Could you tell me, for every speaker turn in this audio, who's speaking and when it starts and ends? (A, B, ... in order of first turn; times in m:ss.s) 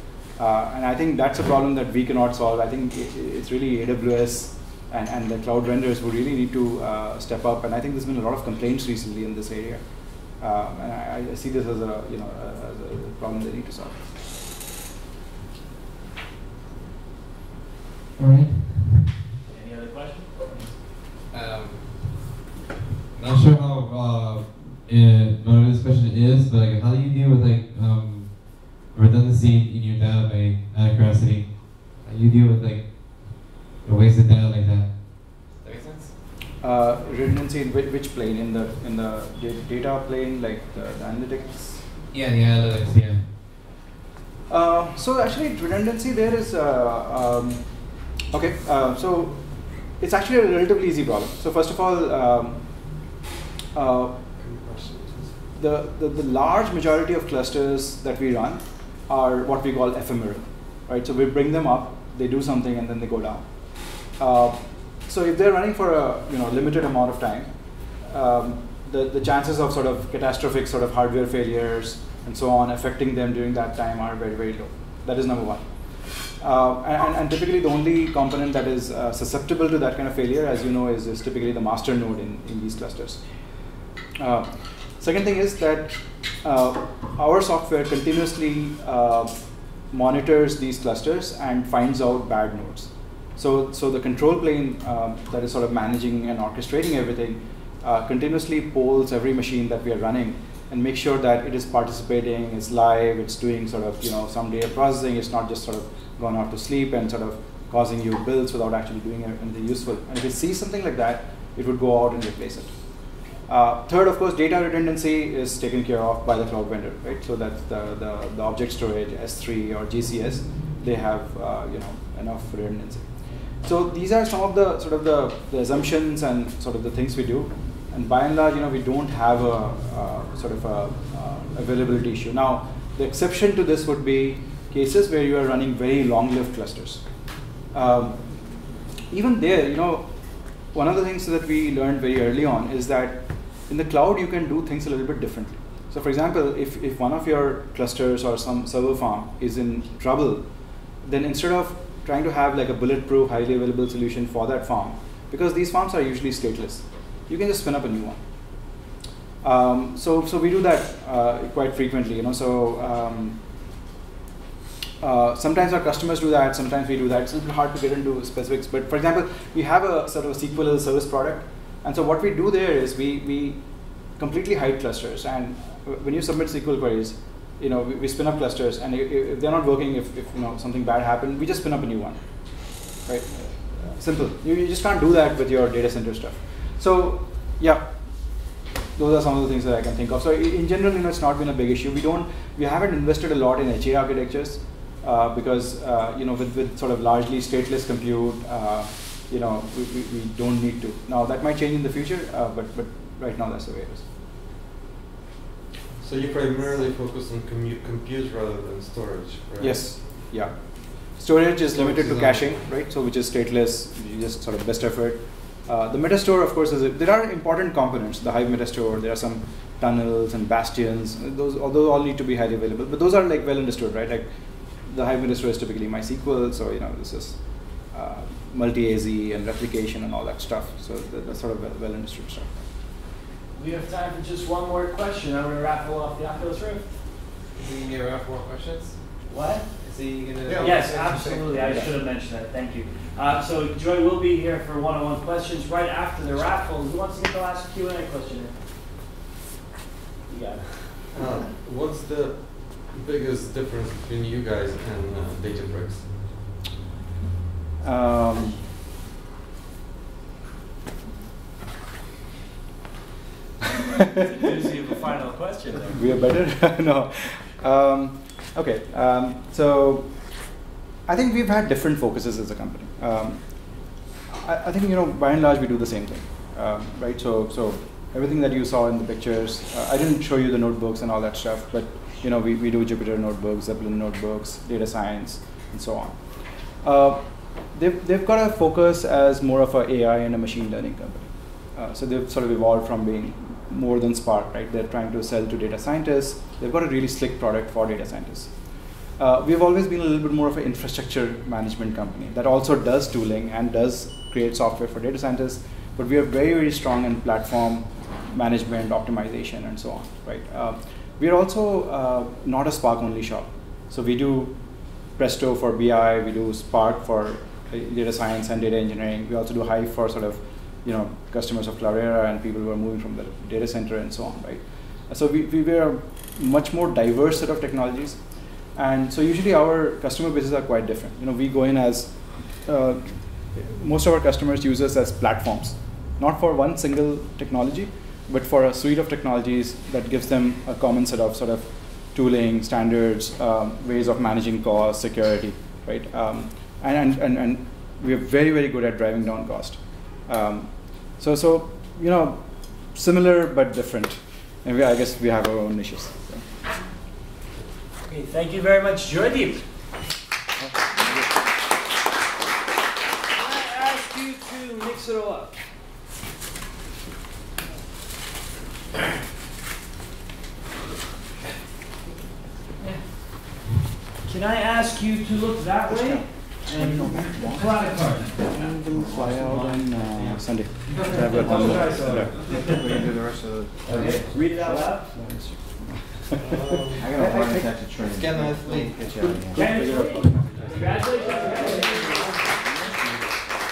0:00.4-0:14.0 A
0:18.2-0:19.0 B
0:19.5-0:20.7 C
0:21.3-0:22.3 B
0:23.2-0:36.1 B
0:36.6-0:41.9 A
0:42.1-0:43.3 B
0:44.5-0:53.0 A
0:53.7-0:54.2 A
0:54.4-0:55.4 D
0:55.6-1:07.5 A
1:08.0-1:15.7 A
1:16.4-1:23.2 A
1:24.2-1:24.5 A
1:25.0-1:29.3 A
1:29.9-1:52.7 A
1:53.5-2:03.1 A
2:03.6-2:17.0 A
2:17.7-2:18.2 A
2:19.1-2:20.1 A
2:20.7-2:30.4 A
2:31.0-2:38.2 A
2:39.4-2:43.4 A
2:45.0-2:53.6 A
2:54.2-3:07.9 A
3:09.0-3:24.0 A
3:26.0-3:30.3 D
3:29.6-3:44.3 A
3:31.7-3:32.5 D
3:44.9-3:52.7 A
3:53.6-3:56.8 C
3:57.5-3:59.0 B
3:59.3-3:59.6 C
3:59.8-4:01.9 B
4:00.6-4:08.6 C
4:10.3-4:11.0 C
4:11.1-4:16.3 D
4:17.8-4:18.6 A
4:23.8-4:26.0 C
4:25.9-4:30.5 A
4:31.1-4:58.6 A
4:59.2-5:14.6 A
5:15.2-5:28.2 A
5:28.8-5:56.4 A
5:58.1-5:59.6 C
6:03.3-6:05.6 C
6:14.2-6:18.7 C
6:16.0-6:17.8 A
6:18.4-6:25.7 E
6:18.9-6:22.7 A
6:21.1-6:23.1 C
6:23.9-6:25.1 C
6:23.9-6:24.2 A
6:25.2-6:26.4 A
6:26.4-6:27.2 D
6:26.9-6:33.0 E
6:27.0-6:27.8 A
6:28.2-6:29.0 D
6:29.1-6:31.8 A
6:29.5-6:32.8 C
6:31.3-6:31.7 D